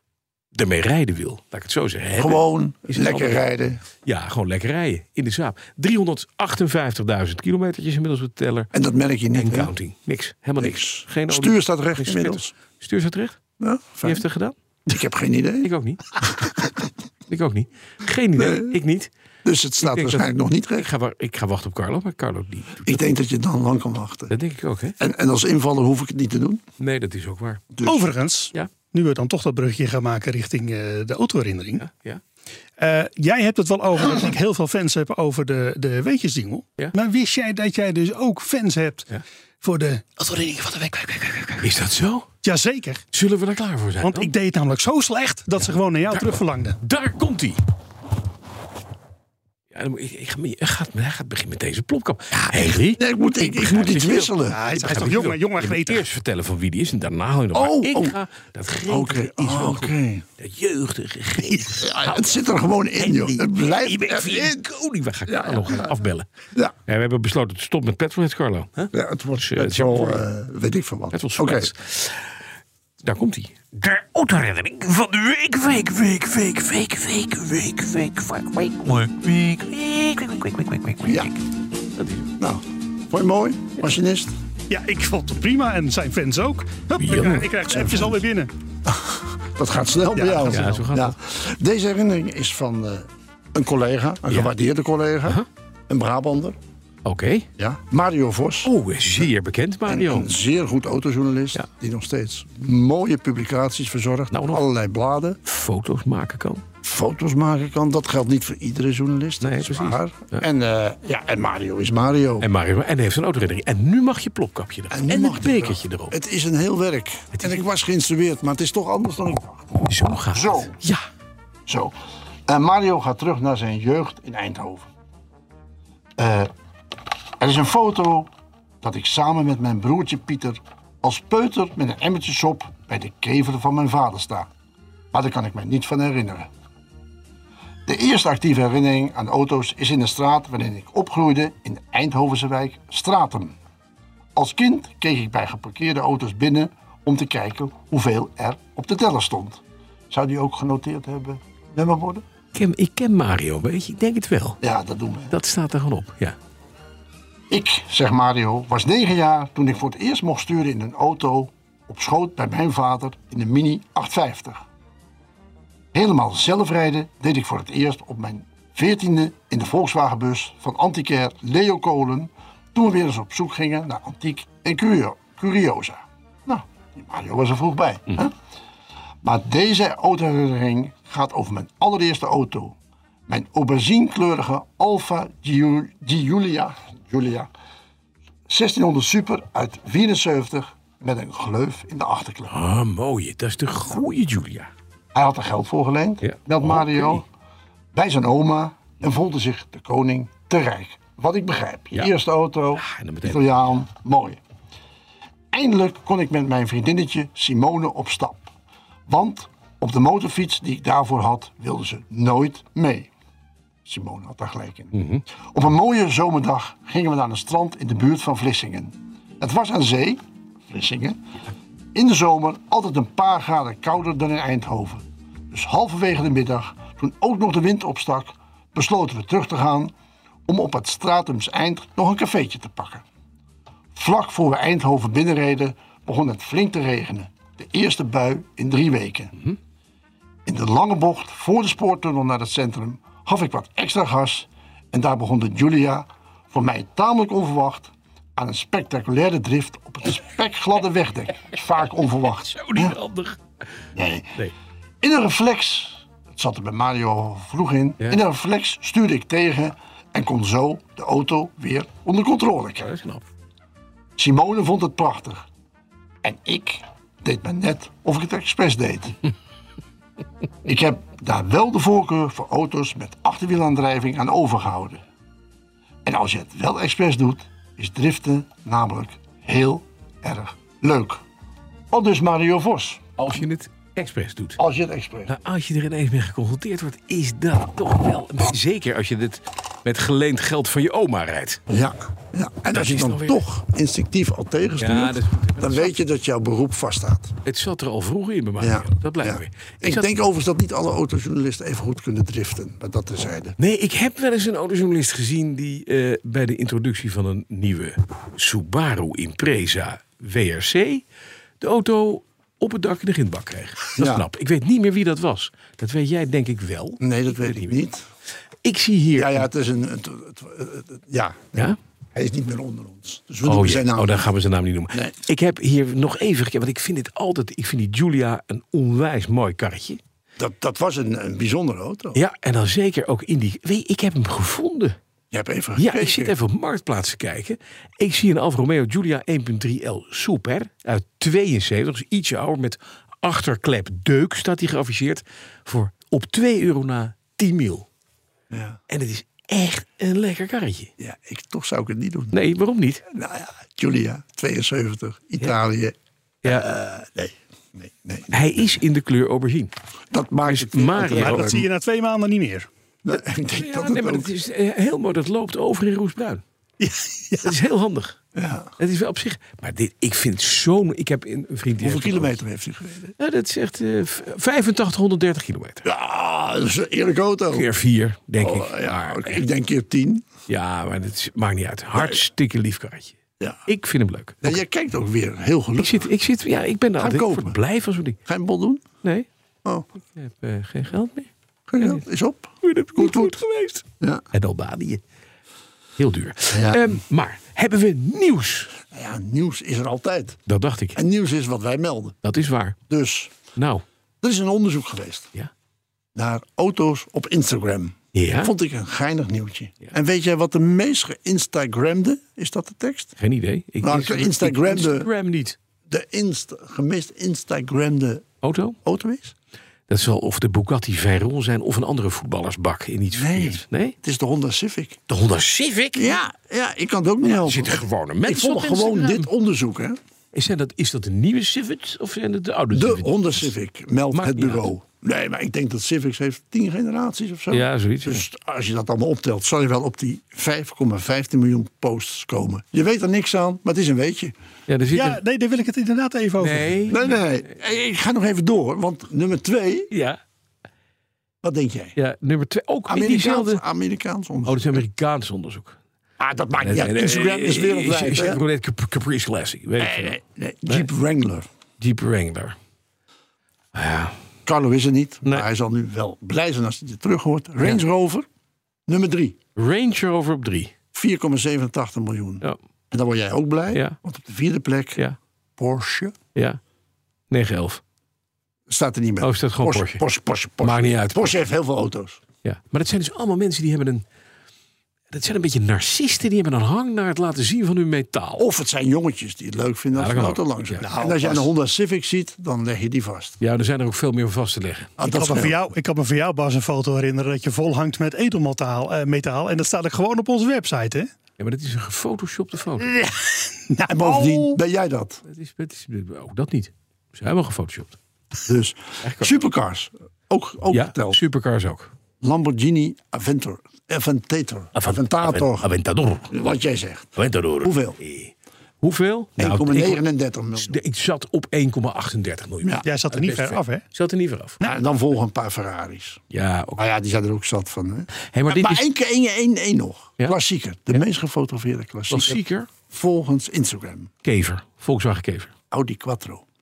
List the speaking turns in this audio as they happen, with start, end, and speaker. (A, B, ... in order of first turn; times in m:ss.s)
0:00.5-0:03.4 A
0:02.2-0:03.8 B
0:04.0-0:08.7 A
0:08.7-0:09.7 B
0:09.3-0:13.4 A
0:10.6-0:12.5 B
0:13.6-0:14.2 B
0:14.0-0:14.6 A
0:14.9-0:15.7 B
0:15.6-0:16.1 A
0:16.2-0:16.7 B
0:17.3-0:19.1 A
0:18.4-0:18.8 B
0:19.4-0:20.9 B
0:19.8-0:23.1 A
0:22.8-0:24.3 B
0:24.3-0:25.0 A
0:25.0-0:26.6 B
0:26.8-0:27.6 A
0:27.7-0:28.1 B
0:27.8-0:31.8 C
0:31.8-0:32.2 A
0:32.8-0:39.1 C
0:39.6-0:41.7 C
0:41.6-0:42.3 A
0:42.4-0:43.0 C
0:43.1-0:44.3 A
0:44.0-0:46.8 C
0:45.6-0:47.6 A
0:49.7-1:02.4 A
0:52.9-0:54.6 B
0:54.5-0:56.1 C
0:57.5-0:58.2 B
0:58.9-1:00.2 B
1:01.7-1:04.6 B
1:03.0-1:06.3 A
1:05.3-1:05.9 B
1:06.8-1:10.3 A
1:08.9-1:11.7 B
1:11.1-1:12.3 A
1:13.0-1:21.4 A
1:21.0-1:21.3 B
1:22.0-1:22.3 A
1:22.4-1:24.3 B
1:24.7-1:28.5 C
1:27.0-1:27.5 A
1:27.7-1:28.2 B
1:28.8-1:36.6 B
1:30.1-1:30.8 C
1:30.5-1:31.1 A
1:37.0-1:37.5 A
1:37.6-1:38.7 B
1:38.6-1:40.3 A
1:39.9-1:45.4 B
1:44.3-1:44.6 A
1:45.4-1:46.6 A
1:46.8-1:52.5 B
1:49.4-1:50.4 A
1:52.4-1:56.1 A
1:54.9-2:00.7 B
1:57.3-1:57.6 A
1:59.8-2:01.0 A
2:01.7-2:01.9 B
2:02.5-2:04.9 B
2:06.2-2:06.5 B
2:07.4-2:08.3 B
2:08.8-2:14.5 B
2:15.1-2:16.5 B
2:17.8-2:23.6 B
2:24.4-2:32.2 B
2:32.5-2:34.6 A
2:34.6-2:35.3 B
2:35.3-2:36.4 A
2:37.5-2:44.6 B
2:45.9-2:58.3 B
2:59.2-3:02.8 B
3:03.3-3:07.5 B
3:08.5-3:12.5 B
3:12.5-3:14.7 A
3:15.1-3:17.2 B
3:16.2-3:17.2 A
3:17.9-3:24.4 B
3:22.8-3:23.4 A
3:25.5-3:28.5 B
3:29.1-3:33.1 B
3:33.8-3:41.2 B
3:34.9-3:35.2 A
3:41.9-3:49.9 B
3:50.5-3:53.0 B
3:53.9-3:59.4 B
4:00.4-4:13.0 B
4:12.5-4:13.4 A
4:13.9-4:14.4 B
4:15.0-4:22.9 B
4:22.8-4:23.2 A
4:24.2-4:25.4 B
4:26.2-4:29.2 B
4:30.6-4:35.0 B
4:36.0-4:41.2 B
4:41.9-4:43.0 B
4:43.2-4:44.6 A
4:44.6-4:45.3 B
4:45.3-4:51.6 A
4:51.7-4:57.3 B
4:52.7-4:53.4 A
4:54.8-4:55.9 A
4:57.4-5:00.1 A
4:58.6-5:03.6 B
5:03.6-5:11.0 A
5:11.6-5:17.8 A
5:14.0-5:14.2 B
5:17.0-5:18.0 B
5:18.6-5:19.5 A
5:19.1-5:24.3 B
5:23.4-5:30.0 A
5:30.4-5:32.2 B
5:32.1-5:35.0 A
5:35.3-5:36.3 B
5:35.8-5:47.9 A
5:48.5-5:48.8 B
5:48.9-5:50.9 A
5:51.0-5:52.3 B
5:52.3-5:53.0 A
5:53.1-5:58.7 B
5:56.4-5:56.7 A
5:58.3-5:59.7 A
6:00.1-6:01.7 B
6:00.4-6:01.6 A
6:01.0-6:02.7 C
6:03.0-6:04.3 B
6:03.5-6:06.4 A
6:06.8-6:07.5 C
6:07.4-6:08.2 A
6:08.3-6:08.7 B
6:08.8-6:12.4 A
6:11.8-6:13.1 B
6:13.2-6:15.8 A
6:15.8-6:17.7 B
6:17.5-6:19.4 A
6:18.4-6:20.2 B
6:20.5-6:24.6 A
6:24.4-6:26.1 B
6:25.8-6:28.2 A
6:27.0-6:27.6 B
6:28.2-6:28.8 B
6:30.0-6:32.0 A
6:31.7-6:33.4 B
6:32.6-6:35.0 A
6:36.0-6:38.8 A
6:36.5-6:37.0 B
6:38.9-6:40.4 B
6:40.4-6:41.0 A
6:40.9-6:42.2 B
6:42.2-6:42.8 A
6:42.9-6:43.3 B
6:43.6-6:43.8 A
6:44.2-6:45.3 B
6:46.1-6:53.2 B
6:48.1-6:48.5 A
6:53.2-6:55.6 A
6:53.8-6:55.1 B
6:55.9-6:58.3 B
6:58.4-6:58.8 A
6:58.8-6:59.3 B
6:59.9-7:04.0 A
7:03.1-7:05.0 B
7:05.1-7:06.2 A
7:05.9-7:10.0 B
7:07.2-7:09.3 A
7:10.3-7:13.5 A
7:12.7-7:24.3 B
7:14.1-7:14.7 A
7:17.5-7:18.2 A
7:24.7-7:25.2 A
7:24.9-7:26.8 C
7:26.4-7:27.2 A
7:26.9-7:29.9 B
7:29.9-7:30.2 A
7:31.4-7:32.0 B
7:32.0-7:33.6 A
7:32.9-7:34.8 B
7:34.4-7:35.8 A
7:36.2-7:38.4 B
7:36.6-7:40.9 A
7:39.8-7:41.4 B
7:41.8-7:42.6 A
7:43.7-7:44.2 A
7:44.4-7:48.2 B
7:48.9-7:49.4 B
7:49.6-7:50.7 A
7:50.9-7:55.0 B
7:53.7-7:54.0 A
7:55.6-7:56.1 B
7:56.3-7:56.6 A
7:57.3-7:57.8 A
7:58.7-8:02.2 B
7:59.2-8:00.0 A
8:00.6-8:01.4 A
8:02.4-8:04.0 A
8:05.1-8:08.4 A
8:08.4-8:13.4 B
8:09.9-8:10.9 A
8:10.8-8:11.4 C
8:13.4-8:14.9 A
8:15.0-8:15.6 B
8:15.0-8:21.1 C
8:21.4-8:22.9 A
8:22.9-8:24.6 C
8:23.9-8:25.2 B
8:25.2-8:28.0 A
8:28.4-8:31.2 B
8:29.0-8:29.4 A
8:30.7-8:31.9 A
8:32.2-8:35.7 B
8:34.7-8:36.3 A
8:36.3-8:38.0 B
8:37.2-8:40.0 A
8:39.4-8:40.8 B
8:40.6-8:44.6 A
8:42.8-8:43.8 C
8:44.6-8:46.2 B
8:46.3-8:46.8 A
8:46.8-8:54.1 B
8:48.2-8:48.8 A
8:52.1-8:52.7 A
8:54.2-8:55.5 A
8:55.7-8:56.4 B